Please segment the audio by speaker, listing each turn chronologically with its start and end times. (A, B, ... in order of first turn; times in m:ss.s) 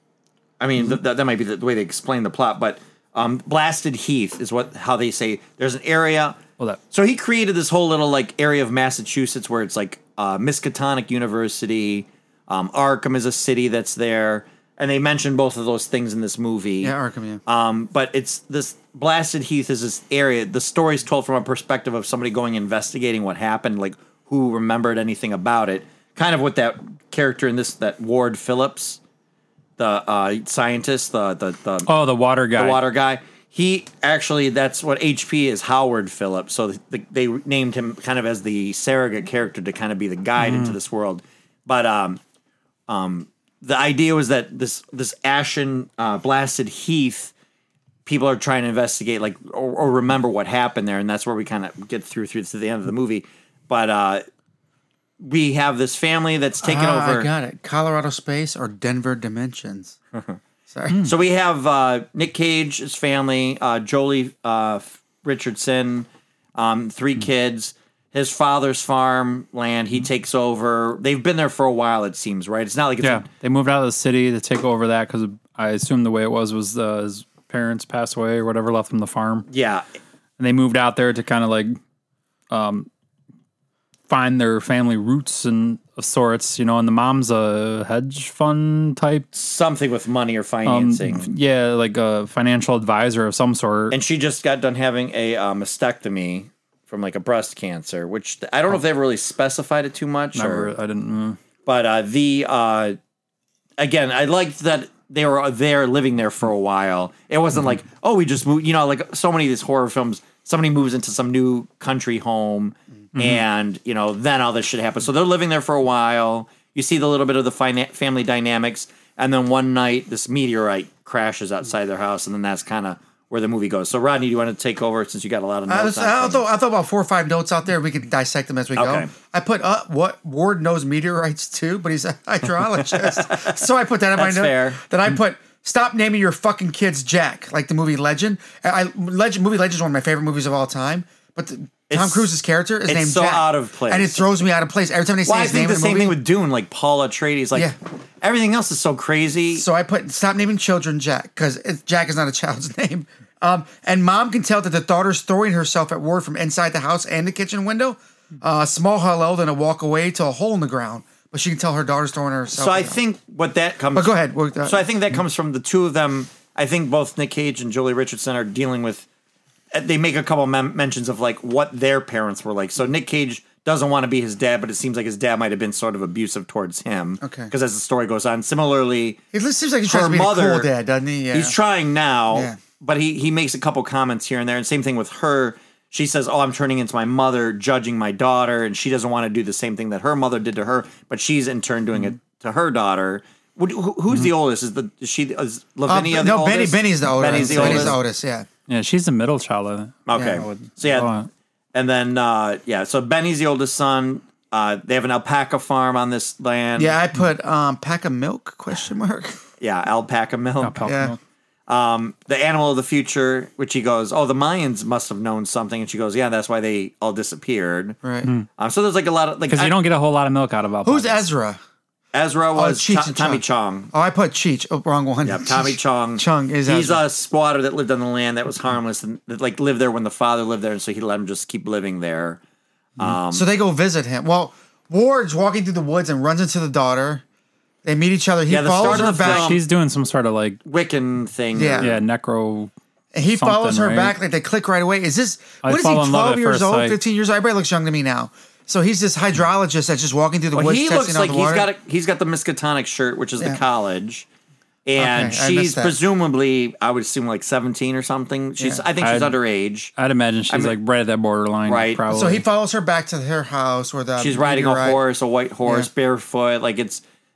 0:00.6-0:06.4 A
0:06.9-0:16.9 A
0:16.8-0:17.4 B
0:17.4-0:29.0 A
0:29.8-0:31.9 A
0:31.9-0:32.8 C
0:32.6-0:42.2 A
0:40.4-0:40.8 C
0:42.9-0:47.3 A
0:48.0-0:54.2 A
0:55.2-0:57.3 A
0:56.6-1:00.0 B
1:00.7-1:01.1 B
1:01.0-1:13.2 A
1:13.0-1:19.5 C
1:19.5-1:19.8 A
1:20.4-1:21.8 C
1:22.5-1:22.9 C
1:24.1-1:29.2 C
1:29.3-1:31.3 A
1:30.6-1:33.9 C
1:33.9-1:40.7 A
1:40.3-1:41.4 C
1:41.6-1:43.0 A
1:43.8-2:06.4 A
1:53.2-1:53.4 C
2:05.7-2:26.2 B
2:08.8-2:09.1 A
2:12.9-2:13.6 A
2:14.1-2:14.8 A
2:21.9-2:22.3 A
2:22.9-2:24.3 A
2:25.2-2:29.6 A
2:29.5-2:43.0 B
2:42.5-2:49.1 A
2:43.9-2:44.8 B
2:49.7-2:59.2 A
2:57.2-2:57.5 B
2:59.3-3:01.6 B
2:59.9-3:00.7 A
3:01.3-3:18.0 A
3:02.3-3:02.6 B
3:15.9-3:18.5 B
3:17.2-3:18.0 C
3:18.7-3:21.3 C
3:20.1-3:21.1 A
3:20.1-3:20.4 B
3:21.7-3:27.0 A
3:26.8-3:29.4 B
3:29.6-3:30.8 A
3:30.6-3:31.2 C
3:30.8-3:31.2 B
3:31.7-3:38.0 A
3:38.0-3:38.3 B
3:38.6-3:39.8 A
3:39.5-3:41.2 C
3:40.8-3:41.6 B
3:42.1-3:43.9 A
3:42.6-3:47.0 B
3:45.2-3:52.4 A
3:53.0-3:53.4 A
3:53.3-3:57.2 B
3:57.8-3:59.6 B
3:58.5-3:59.6 A
3:58.8-4:00.6 C
4:00.6-4:02.0 A
4:01.6-4:01.9 B
4:01.8-4:02.7 C
4:03.1-4:11.7 B
4:03.3-4:04.2 C
4:05.6-4:07.0 C
4:10.5-4:14.2 A
4:14.9-4:19.9 A
4:15.0-4:16.0 B
4:18.6-4:18.9 B
4:19.0-4:19.4 C
4:20.0-4:22.4 C
4:21.7-4:22.1 A
4:22.1-4:25.0 B
4:24.2-4:27.0 A